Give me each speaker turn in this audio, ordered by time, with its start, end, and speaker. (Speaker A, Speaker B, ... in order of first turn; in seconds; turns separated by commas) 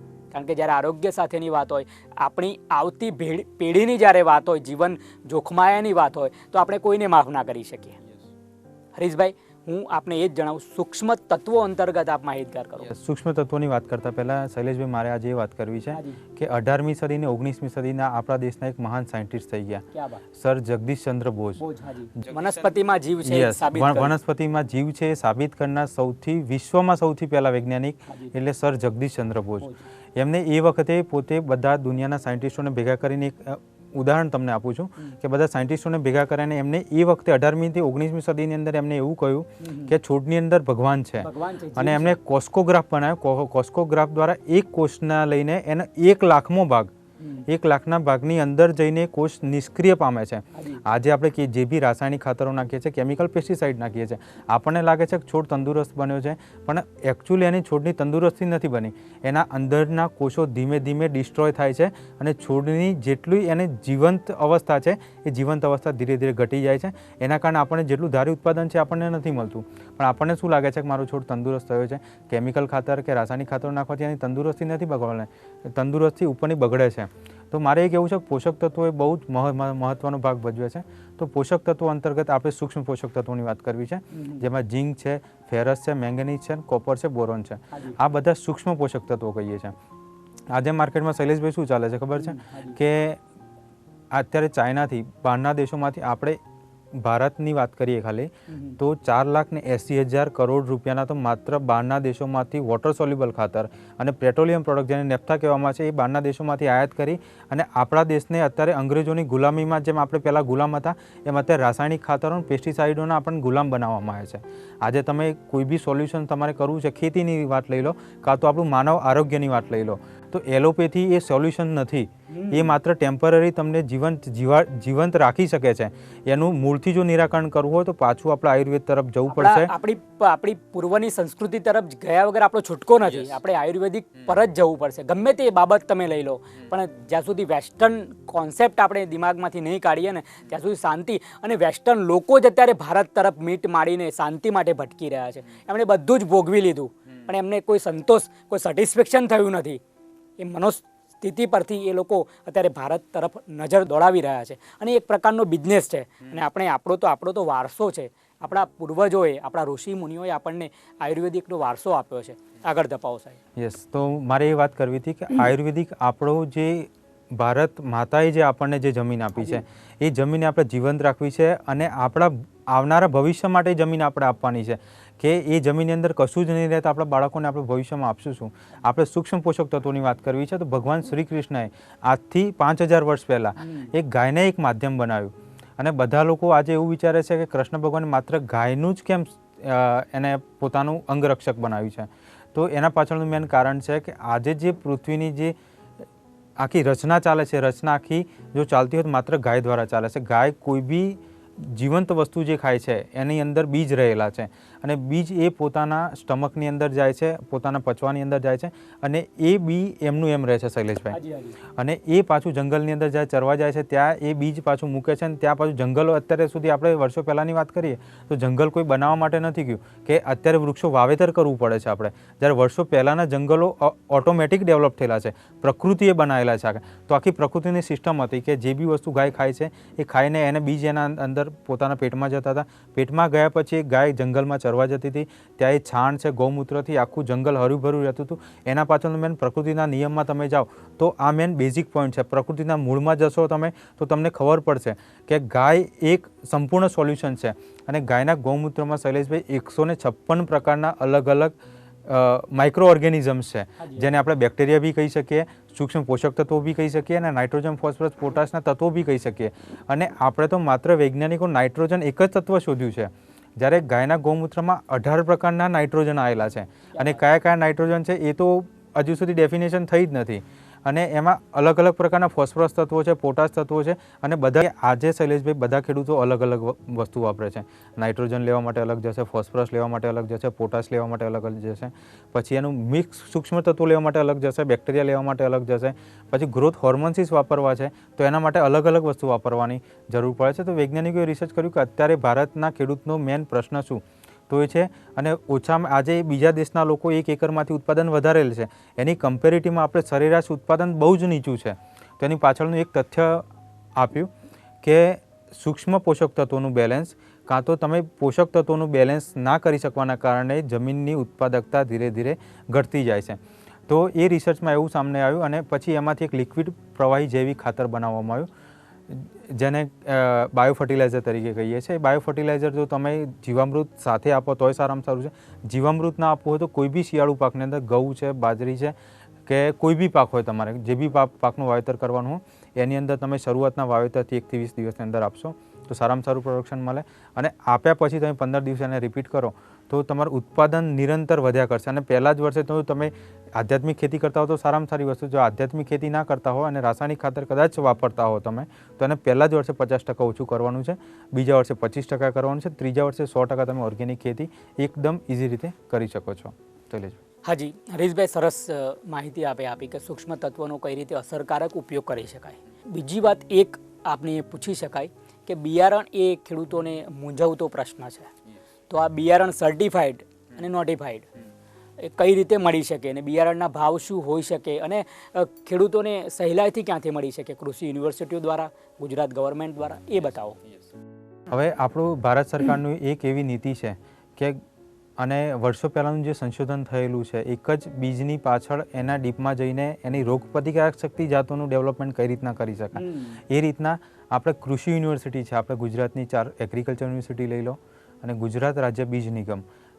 Speaker A: 0.3-8.0, Speaker A: 8.9-12.9, Speaker B: 12.9-21.6, Speaker A: 15.9-16.2, Speaker A: 19.9-20.2, Speaker A: 21.6-24.1, Speaker B: 23.2-46.9, Speaker A: 28.1-28.3, Speaker A: 39.6-39.9, Speaker A: 41.2-42.2, Speaker A: 47.2-47.5, Speaker B: 47.5-89.7, Speaker A: 50.5-50.8, Speaker A: 84.1-84.4, Speaker A: 87.7-88.0, Speaker B: 90.5-93.2, Speaker A: 92.2-92.8, Speaker B: 94.1-96.4, Speaker B: 97.0-129.7, Speaker A: 98.5-98.8, Speaker A: 122.3-122.7, Speaker A: 129.3-149.8, Speaker A: 150.4-163.4, Speaker B: 163.6-195.6, Speaker A: 183.6-183.9, Speaker B: 196.6-251.5, Speaker A: 211.1-211.6, Speaker B: 252.1-304.3, Speaker A: 253.8-254.1, Speaker A: 266.9-267.2, Speaker B: 304.8-318.5, Speaker B: 319.1-328.9, Speaker B: 329.5-357.2, Speaker A: 357.4-368.3, Speaker A: 368.9-371.3, Speaker A: 372.0-380.6, Speaker B: 381.5-384.6, Speaker B: 385.2-399.6, Speaker A: 392.9-393.4